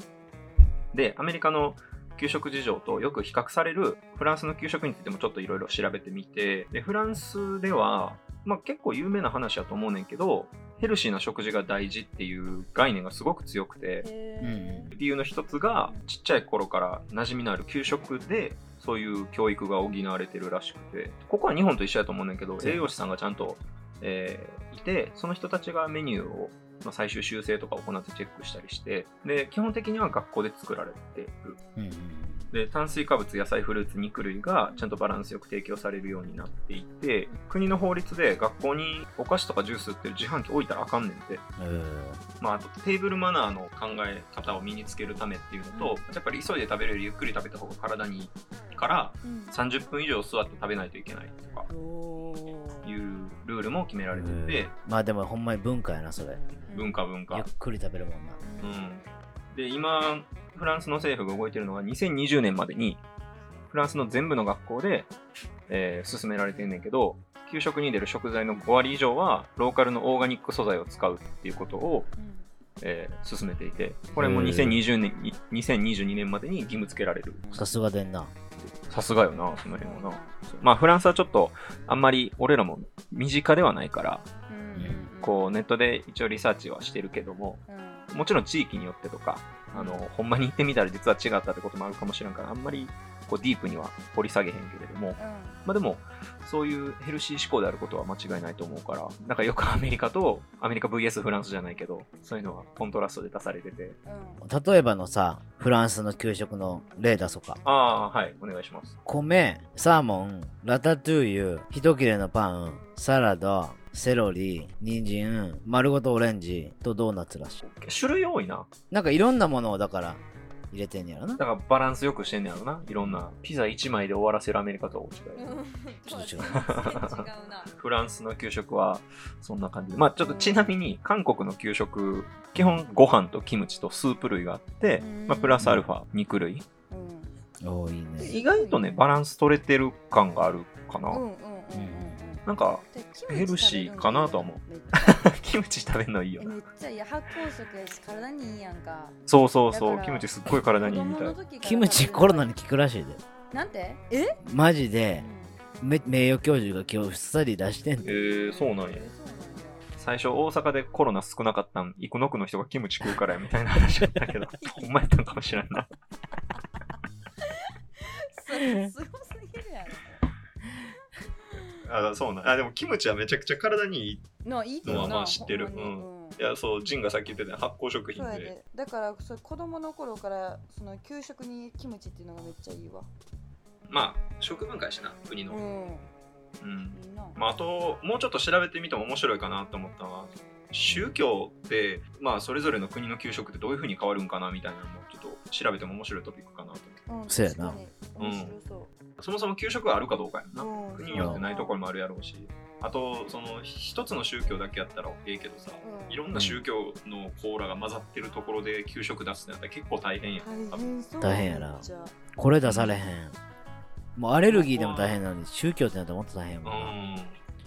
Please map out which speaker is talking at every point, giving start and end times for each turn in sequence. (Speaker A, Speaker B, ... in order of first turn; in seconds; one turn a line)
Speaker A: 0.9-14.1
Speaker B: 14.0-14.9
Speaker C: 14.4-14.9
Speaker A: 14.9-31.6
Speaker B: 15.8-16.0
Speaker C: 22.6-22.9
Speaker C: 31.8-32.5
Speaker A: 32.5-41.5
Speaker B: 34.7-35.0
Speaker C: 41.6-42.2
Speaker A: 42.4-51.7
Speaker B: 45.7-46.0
Speaker B: 49.2-49.6
Speaker B: 51.7-52.9
Speaker A: 52.8-54.7
Speaker C: 54.1-56.5
Speaker B: 56.7-57.0
Speaker A: 56.7-57.5
Speaker C: 57.3-58.4
Speaker B: 58.4-58.9
Speaker A: 58.6-63.0
Speaker A: 63.7-65.1
Speaker A: 65.7-72.1
Speaker B: 72.2-72.5
Speaker A: 72.8-77.5
Speaker C: 74.2-74.8
Speaker C: 77.5-78.3
Speaker A: 78.9-84.2
Speaker B: 79.5-80.4
Speaker B: 84.5-85.5
Speaker C: 84.8-85.0
Speaker A: 85.2-104.0
Speaker B: 87.7-88.1
Speaker B: 89.7-90.1
Speaker B: 95.2-95.6
Speaker B: 104.0-104.4
Speaker C: 104.4-107.6
Speaker A: 107.6-109.0
Speaker C: 109.1-117.6
Speaker A: 117.6-118.7
Speaker C: 118.9-121.4
Speaker A: 121.4-125.6
Speaker C: 123.0-123.3
Speaker B: 125.4-127.7
Speaker C: 126.1-126.6
Speaker A: 126.4-136.7
Speaker B: 130.2-130.7
Speaker B: 135.0-135.7
Speaker C: 135.6-135.9
Speaker B: 136.9-137.4
Speaker C: 137.6-138.4
Speaker A: 138.2-141.2
Speaker B: 138.2-139.1
Speaker B: 141.1-145.3
Speaker C: 141.7-142.2
Speaker A: 142.4-146.6
Speaker B: 146.4-149.2
Speaker A: 149.3-151.4
Speaker B: 149.7-152.5
Speaker C: 151.6-153.2
Speaker B: 153.5-154.4
Speaker C: 154.4-155.3
Speaker B: 155.2-155.6
Speaker C: 155.8-158.1
Speaker B: 158.0-159.8
Speaker A: 158.0-159.1
Speaker A: 160.0-165.9
Speaker B: 164.6-164.9
Speaker B: 168.3-170.2
Speaker A: 171.8-174.2
Speaker B: 174.4-176.4
Speaker A: 174.8-178.6
Speaker C: 174.8-175.1
Speaker B: 178.1-183.1
Speaker A: 183.9-185.6
Speaker B: 185.5-186.1
Speaker A: 186.6-197.0
Speaker B: 186.9-187.4
Speaker C: 190.9-191.2
Speaker B: 197.1-198.9
Speaker C: 197.3-197.8
Speaker A: 198.2-198.6
Speaker A: 199.2-210.9
Speaker B: 200.6-201.8
Speaker C: 201.1-201.4
Speaker B: 205.8-206.3
Speaker C: 206.3-206.6
Speaker B: 210.4-212.2
Speaker C: 211.2-213.4
Speaker A: 212.6-213.0
Speaker C: 214.2-217.0
Speaker A: 214.4-215.2
Speaker A: 216.7-217.4